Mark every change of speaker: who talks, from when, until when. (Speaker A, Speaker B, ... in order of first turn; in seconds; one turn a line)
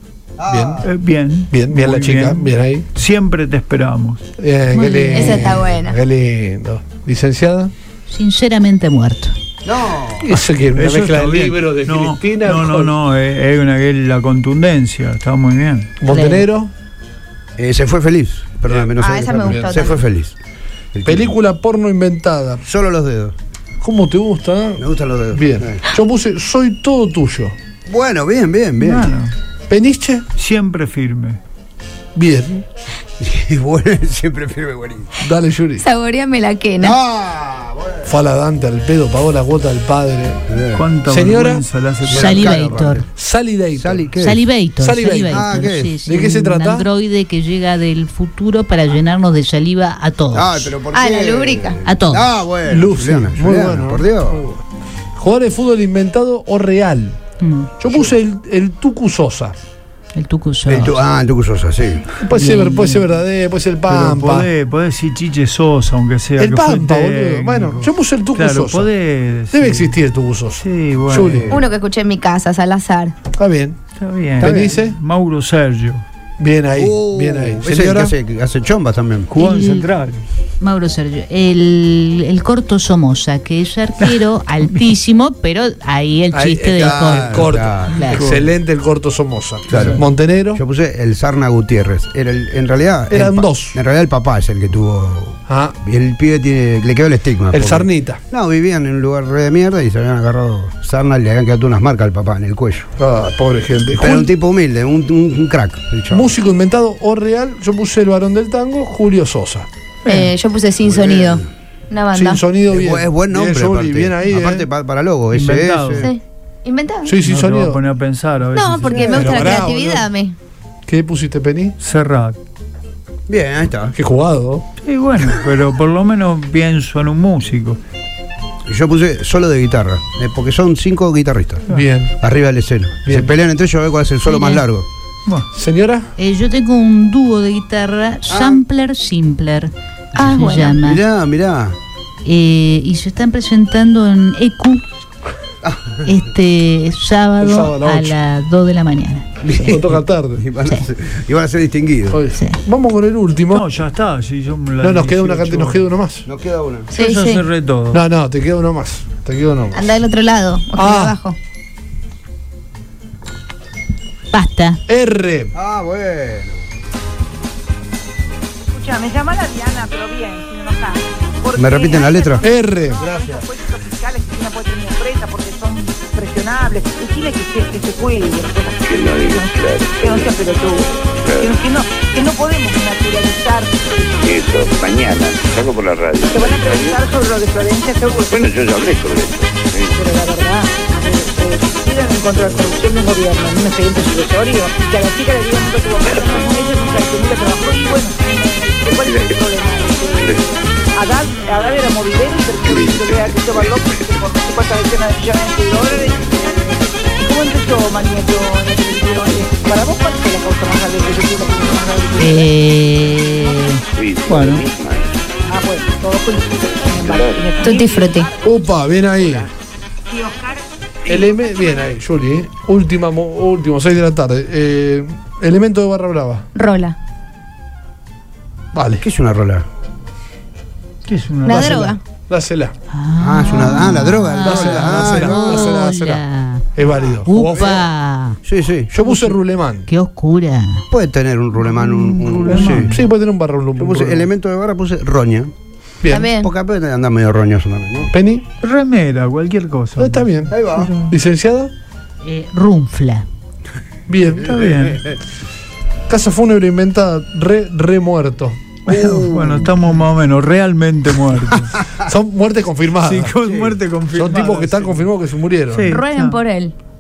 Speaker A: 0.4-0.9
Speaker B: 0.5-0.8
Speaker C: 0.8-4.2
Speaker B: 1.5-2.9
Speaker B: 4.4-7.7
Speaker D: 4.7-5.6
Speaker E: 5.1-6.0
Speaker D: 8.1-9.3
Speaker A: 9.7-10.4
Speaker B: 10.2-12.9
Speaker C: 10.7-15.9
Speaker B: 16.0-16.7
Speaker D: 16.1-16.4
Speaker A: 17.6-20.4
Speaker B: 18.7-19.8
Speaker E: 19.0-20.0
Speaker A: 20.9-21.3
Speaker B: 21.1-22.6
Speaker A: 22.6-23.4
Speaker B: 23.8-27.6
Speaker A: 24.8-25.8
Speaker A: 27.9-29.1
Speaker C: 28.8-29.3
Speaker B: 29.7-30.2
Speaker C: 30.4-31.4
Speaker B: 32.2-32.6
Speaker A: 33.2-35.1
Speaker B: 35.2-35.9
Speaker E: 35.8-37.0
Speaker A: 36.8-38.1
Speaker B: 38.1-40.5
Speaker A: 40.5-40.9
Speaker C: 40.8-42.7
Speaker B: 41.0-41.6
Speaker A: 42.1-43.1
Speaker D: 42.1-43.0
Speaker B: 43.1-44.0
Speaker A: 43.8-44.5
Speaker D: 44.2-50.8
Speaker B: 44.8-45.5
Speaker A: 45.3-46.0
Speaker B: 46.0-46.9
Speaker A: 50.3-54.4
Speaker E: 50.9-51.8
Speaker D: 51.8-52.3
Speaker B: 52.7-54.6
Speaker B: 55.2-57.2
Speaker D: 57.4-57.7
Speaker B: 57.8-59.5
Speaker D: 60.1-61.0
Speaker A: 60.7-62.1
Speaker B: 62.2-64.5
Speaker D: 62.3-63.1
Speaker C: 63.9-70.0
Speaker B: 66.4-68.9
Speaker B: 69.5-71.5
Speaker C: 70.6-71.5
Speaker A: 71.2-71.6
Speaker E: 71.5-73.2
Speaker B: 73.3-73.8
Speaker C: 74.0-76.0
Speaker A: 74.4-74.8
Speaker B: 74.4-75.0
Speaker B: 76.4-78.1
Speaker A: 76.8-79.3
Speaker C: 79.3-80.2
Speaker D: 79.4-79.9
Speaker D: 80.6-88.2
Speaker C: 84.0-84.8
Speaker B: 86.3-90.6
Speaker A: 86.8-88.0
Speaker C: 88.1-88.5
Speaker A: 89.7-102.9
Speaker B: 93.1-93.8
Speaker B: 95.5-95.8
Speaker B: 97.5-98.2
Speaker B: 103.0-104.3
Speaker A: 104.0-106.3
Speaker B: 106.1-109.7
Speaker C: 110.0-110.3
Speaker E: 110.1-112.4
Speaker A: 110.8-111.5
Speaker B: 112.1-114.7
Speaker A: 112.7-116.1
Speaker C: 115.3-116.1
Speaker E: 116.0-117.2
Speaker B: 117.1-117.8
Speaker C: 117.2-119.6
Speaker E: 118.5-120.4
Speaker B: 118.9-120.1
Speaker B: 120.9-121.8
Speaker C: 121.8-122.4
Speaker A: 123.3-124.0
Speaker B: 124.0-124.6
Speaker C: 124.8-127.8
Speaker A: 128.7-131.7
Speaker B: 131.7-132.2
Speaker A: 132.2-134.9
Speaker B: 133.1-133.4
Speaker D: 134.2-134.6
Speaker B: 135.5-136.1
Speaker D: 136.2-141.0
Speaker A: 138.3-138.6
Speaker E: 140.2-140.8
Speaker A: 140.8-141.8
Speaker D: 142.2-144.8
Speaker A: 145.6-146.0
Speaker D: 146.1-150.0
Speaker B: 147.4-148.2
Speaker A: 149.4-149.8
Speaker B: 149.7-150.4
Speaker A: 150.4-152.2
Speaker B: 152.1-153.7
Speaker D: 152.3-152.6
Speaker C: 153.5-155.9
Speaker B: 154.8-156.3
Speaker A: 156.3-156.9
Speaker E: 156.9-157.4
Speaker C: 157.0-158.0
Speaker B: 157.9-159.9
Speaker E: 159.7-161.4
Speaker B: 160.7-161.2
Speaker D: 164.3-164.8
Speaker B: 164.9-165.5
Speaker A: 165.5-166.6
Speaker F: 168.7-184.6
Speaker A: 171.6-173.4
Speaker B: 172.4-173.0
Speaker G: 178.9-180.4
Speaker G: 181.2-181.5
Speaker G: 184.2-187.0
Speaker F: 186.3-188.6
Speaker G: 188.3-189.9
Speaker F: 190.0-213.8
Speaker G: 196.1-196.4
Speaker G: 199.0-199.3
Speaker G: 202.6-203.7
Speaker G: 205.8-206.3
Speaker D: 212.2-213.8
Speaker G: 214.0-215.1
Speaker C: 214.3-214.7
Speaker F: 215.5-219.4
Speaker G: 216.9-217.5
Speaker E: 217.6-218.3
Speaker B: 218.4-219.5
Speaker F: 220.1-220.7
Speaker B: 221.1-226.5
Speaker F: 221.2-221.8
Speaker E: 226.6-227.0
Speaker B: 228.7-229.1
Speaker A: 229.0-229.7
Speaker C: 231.1-232.0
Speaker E: 231.4-232.0
Speaker B: 232.3-232.7
Speaker D: 232.9-236.7
Speaker A: 233.2-235.7
Speaker B: 234.4-236.2
Speaker C: 234.5-235.0
Speaker B: 236.8-237.8
Speaker A: 236.8-237.9
Speaker D: 237.2-238.4
Speaker A: 238.4-239.0
Speaker B: 238.9-239.9
Speaker D: 239.9-240.8
Speaker A: 240.9-243.0
Speaker C: 241.7-243.0
Speaker B: 242.5-244.3
Speaker A: 243.8-245.5
Speaker B: 246.0-246.3
Speaker E: 246.1-246.5
Speaker A: 246.3-248.1
Speaker B: 248.1-248.5
Speaker C: 248.6-251.2
Speaker B: 250.0-250.5
Speaker A: 250.5-251.0
Speaker B: 251.1-251.7
Speaker D: 252.2-253.3
Speaker B: 254.1-254.6
Speaker A: 254.4-255.1
Speaker C: 254.5-255.0
Speaker B: 256.1-258.7
Speaker C: 258.9-261.8
Speaker A: 258.9-259.7
Speaker B: 262.0-263.3
Speaker C: 263.0-265.1
Speaker A: 263.4-263.8
Speaker B: 264.1-265.9
Speaker C: 265.7-266.4
Speaker E: 265.9-266.7